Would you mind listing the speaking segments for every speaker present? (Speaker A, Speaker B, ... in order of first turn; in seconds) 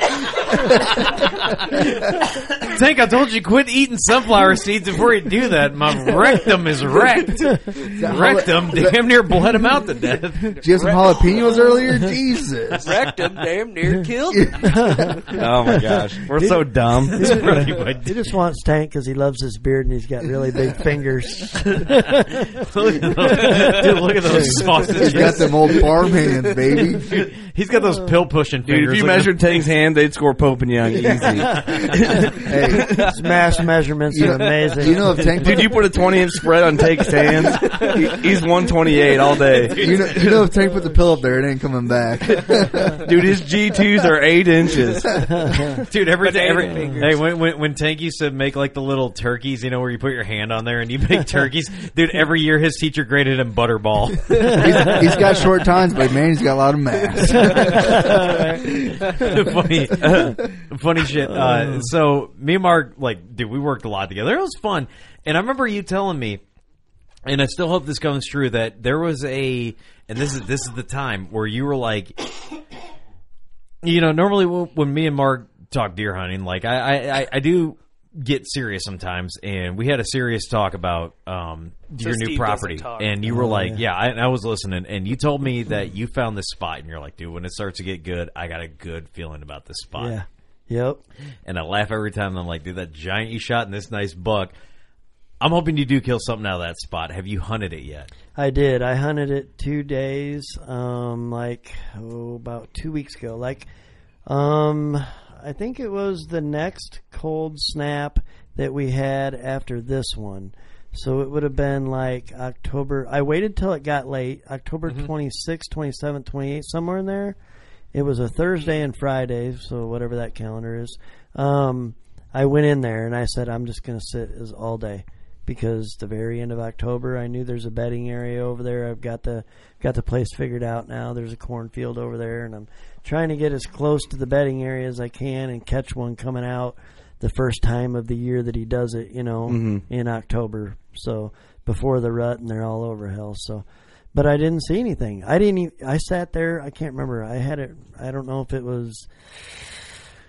Speaker A: 0.9-10.6, 17.2-18.3, 22.5-25.9, 26.8-29.4, 37.6-37.9, 39.4-40.5, 45.9-55.3, 57.4-58.2, 59.1-66.4, 67.2-72.3, 73.8-90.2, 91.5-94.5, 95.4-98.1
Speaker B: 7.5-7.8, 14.6-16.6, 17.1-22.4, 23.3-23.8, 32.8-35.7, 45.4-45.8, 57.4-58.8, 61.3-61.9, 83.3-83.8, 90.0-91.0, 98.4-103.7, 104.3-117.4, 117.9-149.8
Speaker C: 7.9-9.6, 10.6-12.8, 24.3-27.2, 32.5-33.0, 34.1-35.9, 39.8-43.0, 54.4-58.0
Speaker D: 10.6-11.9, 12.8-15.4, 23.4-25.9, 34.2-35.4, 36.4-38.2, 46.1-47.3, 59.0-59.4, 82.0-83.3
Speaker E: 15.3-17.4, 28.6-32.9, 35.4-40.5, 43.0-45.3, 59.9-60.4, 139.5-139.8